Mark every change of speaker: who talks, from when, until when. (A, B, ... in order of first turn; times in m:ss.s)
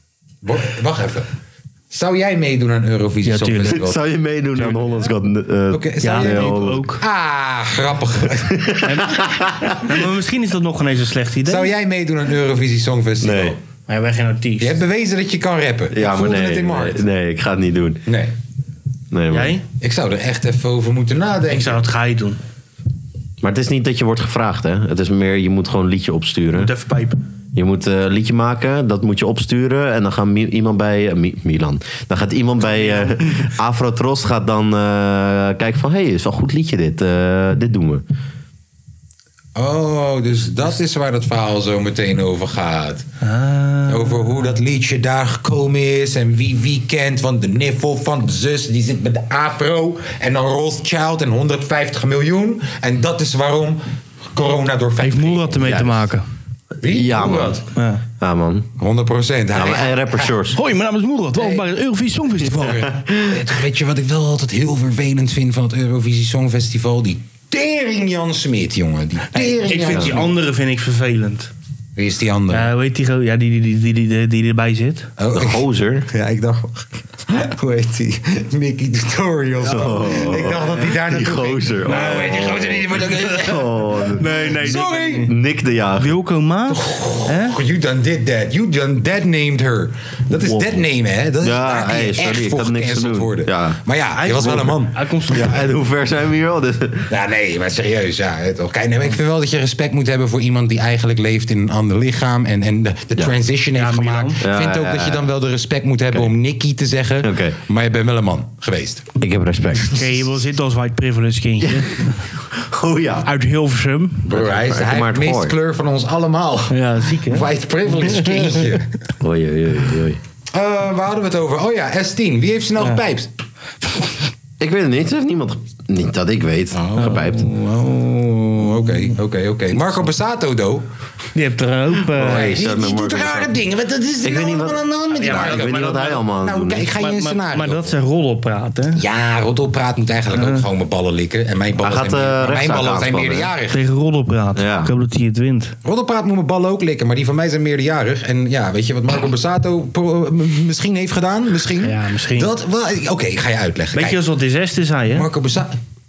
0:00.4-0:01.3 A
0:01.9-0:04.0 A
0:03.2-0:03.8 B
0:03.7-0:06.8 C
0:04.6-0:04.8 B
0:05.7-0:08.7 A
0:06.0-0:07.0 B
0:08.5-0:09.8 C
0:08.8-0:11.7 B
0:11.4-0:13.6 A
0:13.2-0:13.6 C
0:13.9-0:14.8 B
0:14.6-0:17.0 A
0:15.9-0:18.0 C
0:18.0-0:18.3 A
0:19.1-0:19.6 C
0:19.3-0:19.6 B
0:19.8-0:21.8 A
0:21.5-0:22.4 B
0:23.4-0:26.7 C
0:26.5-0:27.2 B
0:27.5-0:38.0 C
0:32.6-0:33.5 B
0:39.5-0:43.0 A
0:43.2-0:44.2 B
0:43.9-0:53.8 A
0:54.3-0:55.7 A
0:55.0-0:56.2 B
0:55.6-0:56.0 C
0:56.8-0:57.6 A
0:56.9-0:57.6 C
0:57.7-0:58.0 B
0:58.2-0:58.7 C
0:58.8-1:00.4 A
0:59.5-1:00.6 C
1:00.5-1:02.9 B
1:01.3-1:01.7 A
1:02.4-1:10.3 A
1:09.3-1:11.5 B
1:12.0-1:12.7 A
1:12.5-1:15.1 B
1:15.2-1:23.8 A
1:15.3-1:16.1 C
1:19.6-1:26.2 C
1:19.8-1:20.2 B
1:24.2-1:25.3 B
1:24.5-1:25.3 A
1:26.0-1:27.6 B
1:26.7-1:35.0 A
1:30.4-1:30.8 C
1:31.4-1:33.8 C
1:34.2-1:35.6 B
1:35.3-1:37.1 C
1:37.1-1:49.1 A
1:43.8-1:44.4 B
1:44.4-1:45.3 C
1:47.2-1:47.6 C
1:49.2-1:50.0 C
1:49.9-1:52.2 B
1:51.6-1:53.3 C
1:53.2-1:54.2 B
1:54.3-1:58.9 A
1:54.3-1:55.5 C
1:56.7-1:58.6 B
1:59.2-2:00.2 C
2:00.5-2:03.3 A
2:04.6-2:07.5 C
2:06.7-2:10.8 A
2:07.0-2:07.8 B
2:11.3-2:12.5 B
2:12.1-2:13.6 C
2:12.2-2:17.9 A
2:14.2-2:16.9 C
2:15.1-2:16.2 B
2:17.0-2:19.0 B
2:19.0-2:23.8 A
2:20.3-2:20.6 B
2:21.8-2:23.5 C
2:23.7-2:25.7 B
2:24.6-2:24.9 C
2:25.8-2:34.2 A
2:31.8-2:32.5 B
2:33.9-2:35.3 B
2:35.1-2:35.7 A